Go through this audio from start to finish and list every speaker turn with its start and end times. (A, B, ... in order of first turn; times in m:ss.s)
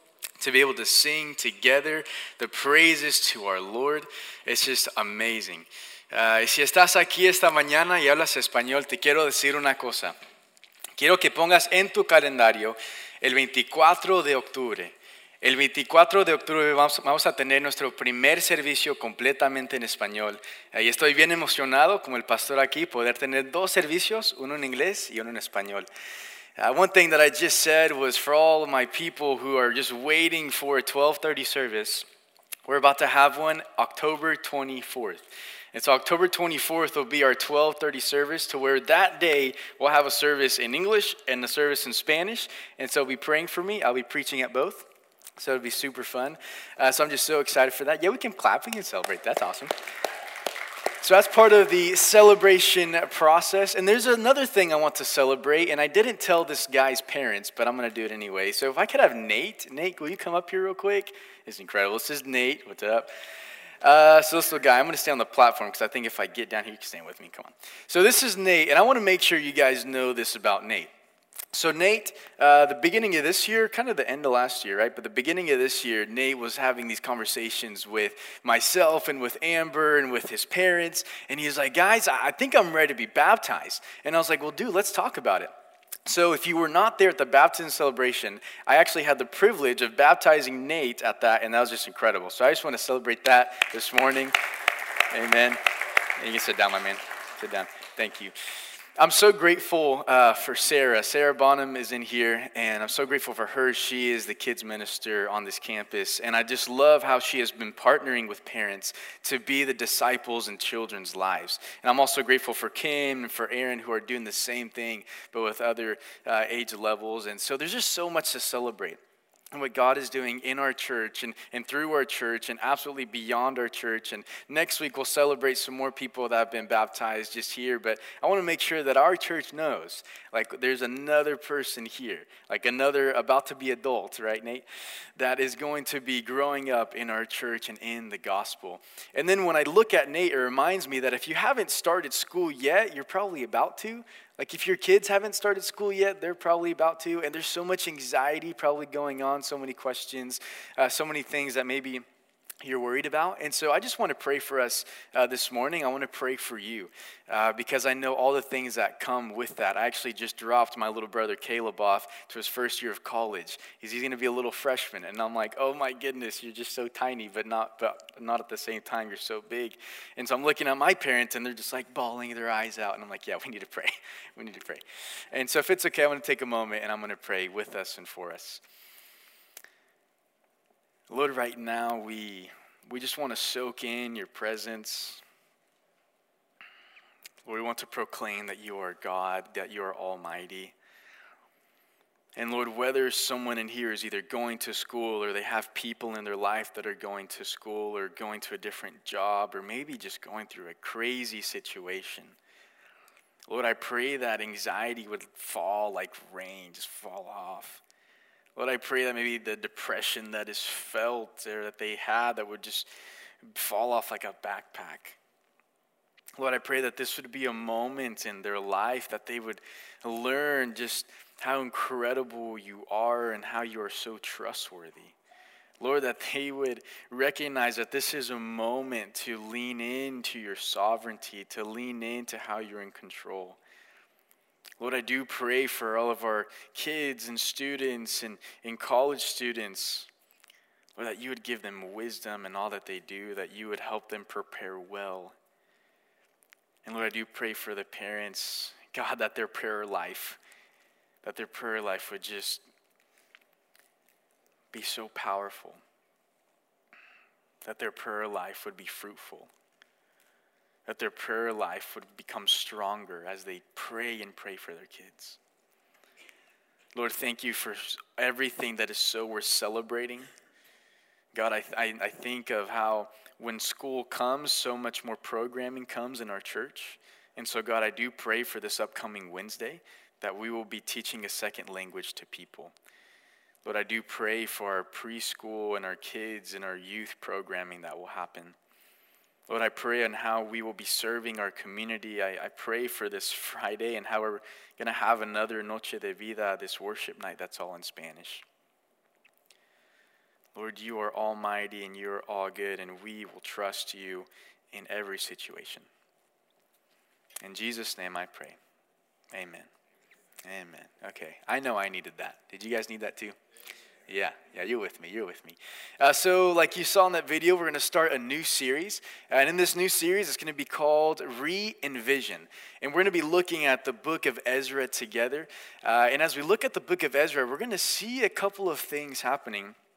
0:00.4-0:10.1 A
0:11.0-0:25.8 A
0:26.6-0:32.0 A
0:32.7-0:49.7 A
0:51.0-1:03.1 A
1:03.8-1:10.9 A
1:11.5-1:25.5 A
1:26.0-1:34.4 A
1:35.1-1:35.6 A
1:36.2-1:38.3 A
1:39.0-1:59.0 A
1:59.5-2:14.6 A
2:15.2-2:32.0 A
2:32.6-2:58.6 A
3:01.1-3:05.2 A
3:07.4-3:10.7 A
3:12.4-3:22.4 A
3:23.5-3:27.8 A
3:28.6-3:32.9 A
3:33.4-3:35.2 A
3:36.4-3:45.1 A
3:45.8-3:53.6 A
3:54.8-4:00.1 A
4:01.0-4:05.3 A
4:06.8-4:10.4 A
4:11.2-4:12.6 A
4:14.7-4:15.8 A
4:17.6-4:19.5 A
4:20.8-4:25.4 A
4:26.9-4:30.3 A
4:31.3-4:42.7 A
4:43.6-4:48.6 A
4:49.5-4:58.4 A
5:00.5-5:05.9 A
5:07.4-5:08.6 A
5:09.3-5:09.7 A
5:10.4-5:13.4 A
5:14.1-5:29.7 A